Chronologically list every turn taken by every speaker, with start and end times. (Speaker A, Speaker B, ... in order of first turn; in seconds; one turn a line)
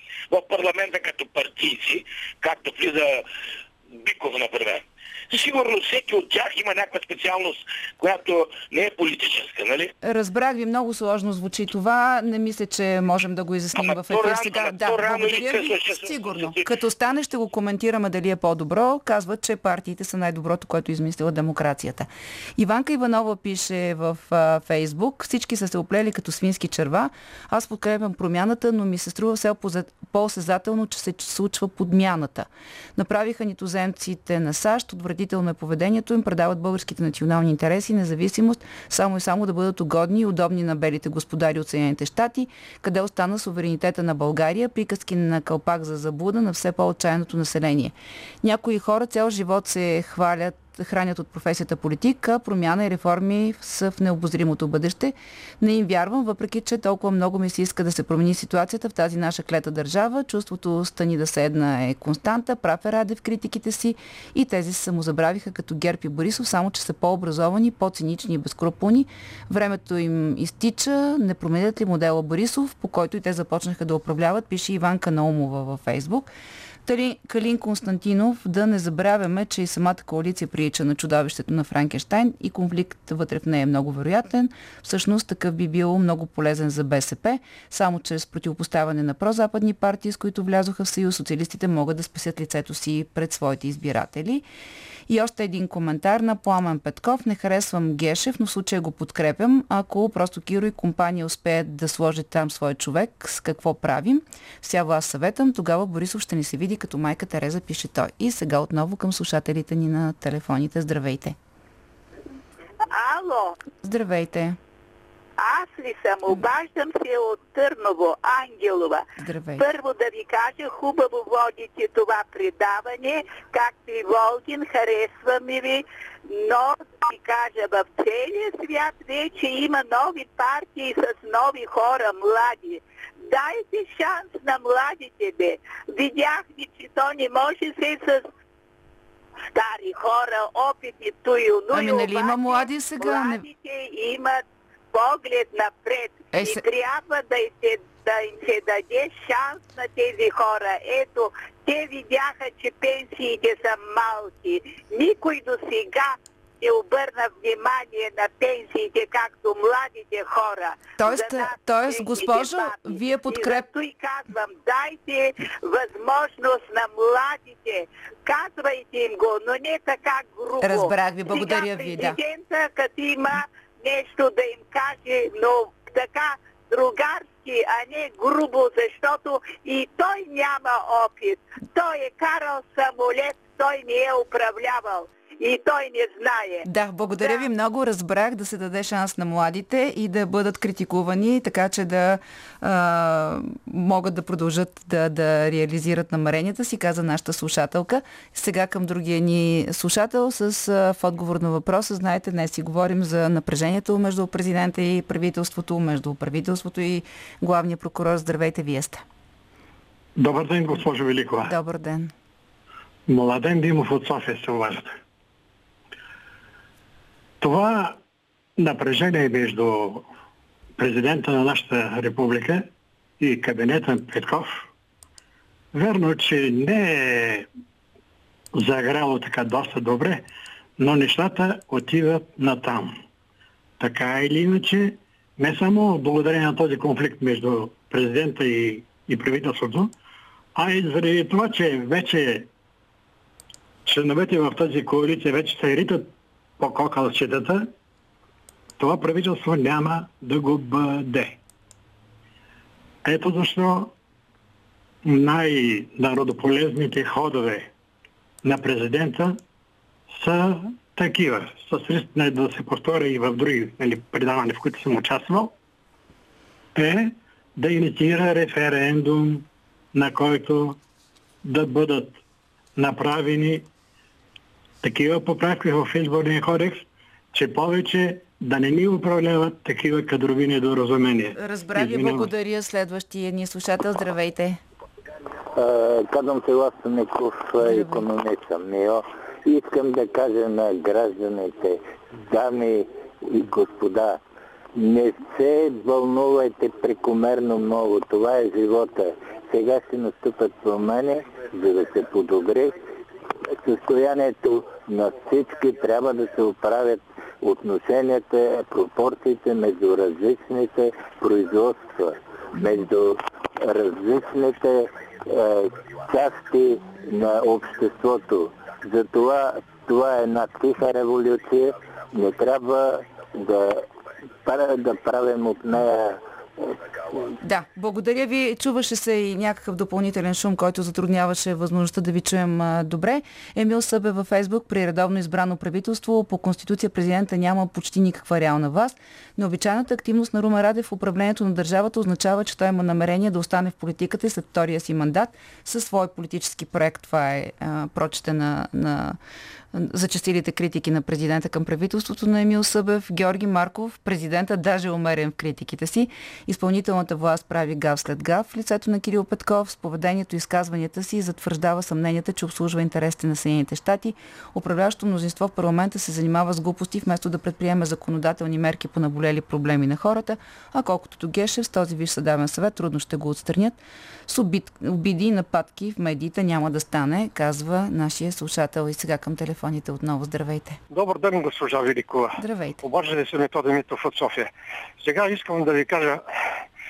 Speaker A: 0.3-3.2
Speaker A: 4.0-9.9
Speaker B: 10.0-76.3
Speaker A: 13.8-16.6
Speaker B: 76.9-94.4
Speaker B: 95.1-111.4
Speaker C: 112.9-113.6
Speaker B: 113.8-114.6
Speaker C: 115.4-119.0
Speaker B: 119.2-119.7
Speaker C: 119.6-138.2
Speaker C: 139.5-144.4
Speaker B: 141.7-143.4
Speaker C: 144.9-186.7
Speaker B: 146.3-146.6
Speaker B: 161.0-163.7
Speaker B: 170.6-172.2
Speaker B: 186.6-209.0
Speaker D: 210.2-211.5
Speaker B: 211.4-212.1
Speaker D: 213.1-214.9
Speaker D: 217.4-218.0
Speaker D: 218.6-220.1
Speaker D: 220.8-222.7
Speaker D: 223.2-224.6
Speaker D: 225.7-227.5
Speaker D: 228.6-230.2
Speaker D: 230.8-232.9
Speaker D: 233.8-239.9
Speaker D: 240.6-242.5
Speaker D: 243.9-247.7
Speaker D: 248.8-251.4
Speaker D: 253.1-253.9
Speaker D: 255.1-257.7
Speaker D: 258.4-259.4
Speaker D: 260.1-265.5
Speaker D: 266.8-270.8
Speaker D: 271.4-272.2
Speaker D: 272.8-273.7
Speaker D: 274.8-282.3
Speaker B: 281.4-284.6
Speaker E: 285.5-294.2
Speaker B: 287.6-288.1
Speaker E: 294.8-302.8
Speaker E: 303.6-323.8
Speaker E: 324.4-327.2
Speaker B: 327.4-349.2
Speaker B: 349.7-380.8
Speaker F: 380.9-386.2
Speaker B: 382.4-382.8